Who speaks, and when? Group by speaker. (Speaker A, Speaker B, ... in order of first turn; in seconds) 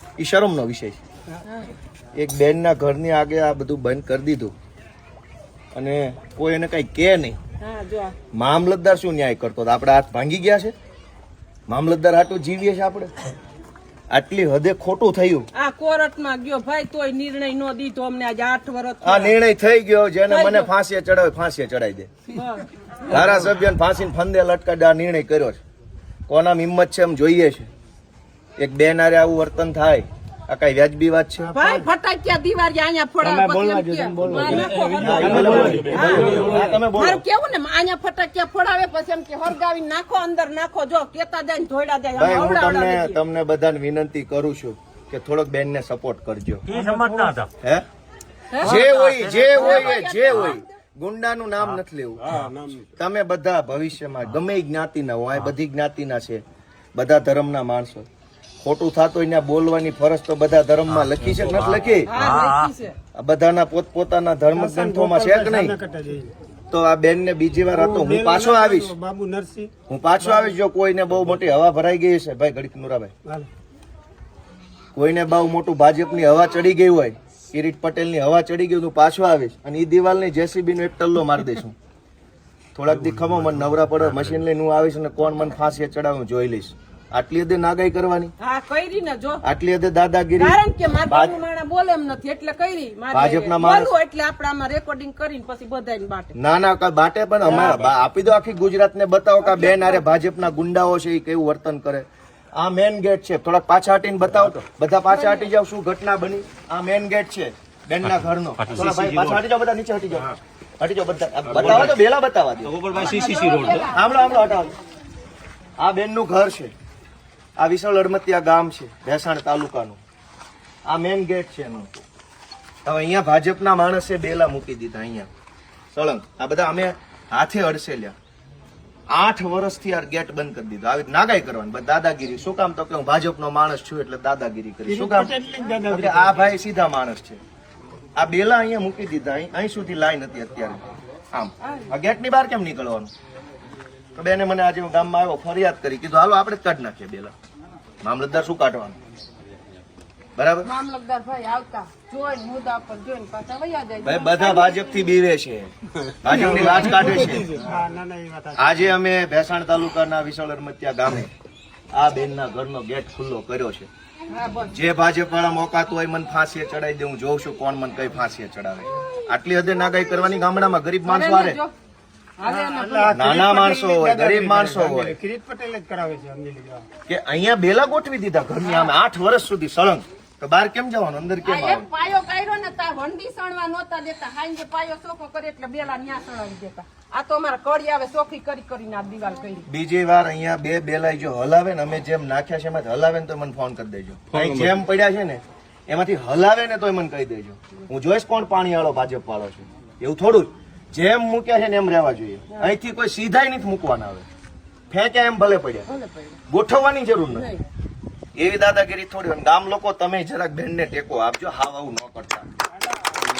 Speaker A: 0.2-1.0, 2.1-4.5, 5.7-7.4, 8.3-10.7, 11.7-13.1, 14.1-15.5, 19.0-22.1, 23.1-25.6, 26.3-27.7, 28.6-31.5, 33.2-37.2, 42.1-46.7, 48.6-52.3, 53.0-56.4, 56.9-58.0, 58.6-62.1, 63.1-65.8, 66.7-68.9, 69.9-73.1, 74.9-81.8, 82.7-88.3, 89.4-91.3, 93.1-93.9, 96.3-112.8, 113.8-114.7, 115.8-116.7, 117.6-120.0, 120.8-121.9, 122.8-125.3, 125.9-128.1, 129.1-135.3, 135.9-137.4, 138.2-143.1, 144.1-147.3, 148.0-148.9, 150.3-150.7, 154.0-155.7, 156.2-157.5, 158.6-161.3, 161.9-163.9, 164.7-171.6, 173.1-175.1, 177.1-181.9, 189.7-204.3, 204.9-205.9, 206.5-207.5, 208.3-212.4
Speaker B: 7.6-8.1, 15.5-19.3, 20.3-20.7, 22.3-23.3, 31.5-43.2, 48.5-48.8, 49.5-50.6, 62.0-63.0, 88.4-89.4, 90.4-96.3, 97.5-97.8, 99.4-100.0, 105.1-105.5, 112.9-114.6, 141.6-141.9, 150.6-155.1, 156.6-157.1, 164.3-164.7, 171.1-171.7, 172.4-173.2, 178.6-178.9, 181.4-189.7, 205.9-206.4, 207.3-207.6
Speaker C: 31.4-31.9, 35.2-36.6, 46.7-47.3, 52.3-52.8, 64.5-66.3, 67.7-69.7, 134.9-136.5, 156.2-158.9, 172.4-176.8, 212.8-213.3
Speaker D: 34.7-36.5, 46.7-47.5, 48.6-50.5, 60.9-62.7, 108.6-109.4, 111.5-112.0, 112.7-113.9, 194.3-194.8